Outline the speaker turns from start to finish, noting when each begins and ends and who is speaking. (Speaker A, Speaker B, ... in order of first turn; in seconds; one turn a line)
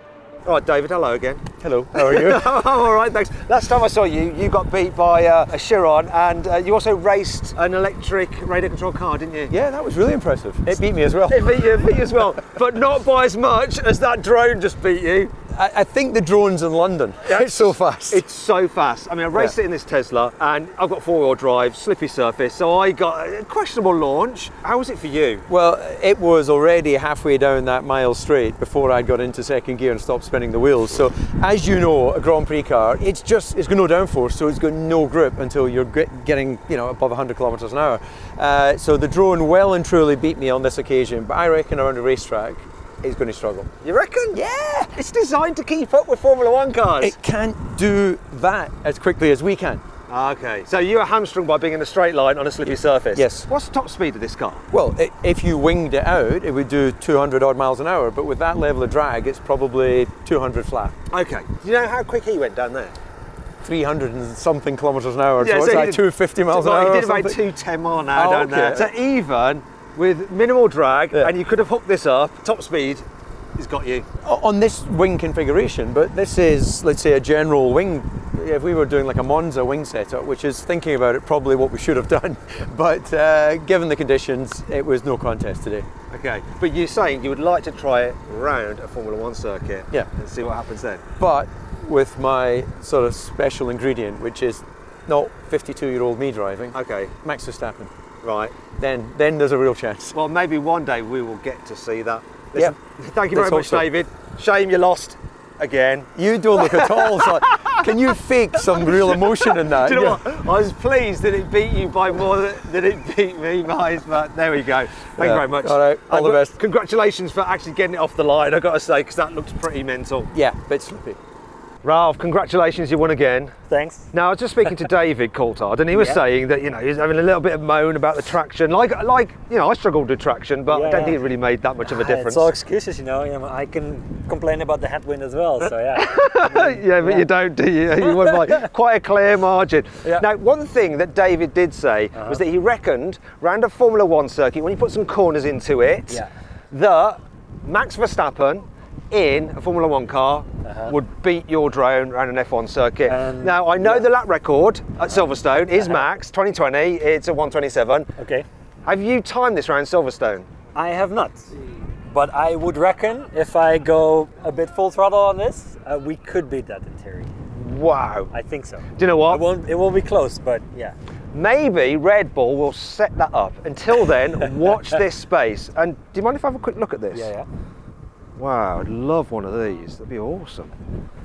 Speaker A: 0.4-9.5
Speaker B: 1.6-2.5
Speaker B: 9.5-12.1
Speaker A: 11.3-15.3
Speaker B: 15.5-18.2
Speaker A: 17.2-25.5
Speaker B: 25.5-43.7
Speaker A: 43.8-47.1
Speaker B: 44.3-44.6
Speaker B: 47.0-49.8
Speaker A: 50.1-54.6
Speaker B: 53.1-53.5
Speaker B: 54.7-61.0
Speaker A: 61.1-62.9
Speaker B: 63.6-67.4
Speaker A: 65.4-74.1
Speaker B: 68.1-68.9
Speaker B: 74.2-85.9
Speaker A: 86.1-91.0
Speaker B: 91.2-97.9
Speaker A: 96.7-97.1
Speaker A: 98.2-98.5
Speaker B: 98.8-100.1
Speaker A: 100.1-107.8
Speaker B: 103.3-103.9
Speaker B: 106.1-110.2
Speaker A: 108.7-120.3
Speaker B: 115.2-116.5
Speaker B: 120.3-121.2
Speaker A: 121.8-123.5
Speaker C: 123.7-124.1
Speaker A: 124.1-132.5
Speaker C: 125.9-126.2
Speaker C: 130.7-131.2
Speaker C: 131.8-137.3
Speaker A: 135.9-158.1
Speaker C: 138.1-138.6
Speaker C: 142.1-142.4
Speaker C: 150.6-150.9
Speaker C: 153.1-154.1
Speaker C: 158.2-158.4
Speaker A: 158.8-160.5
Speaker C: 160.7-167.3
Speaker A: 167.5-168.3
Speaker C: 168.3-170.9
Speaker A: 168.9-169.5
Speaker A: 171.3-177.3
Speaker A: 178.4-180.7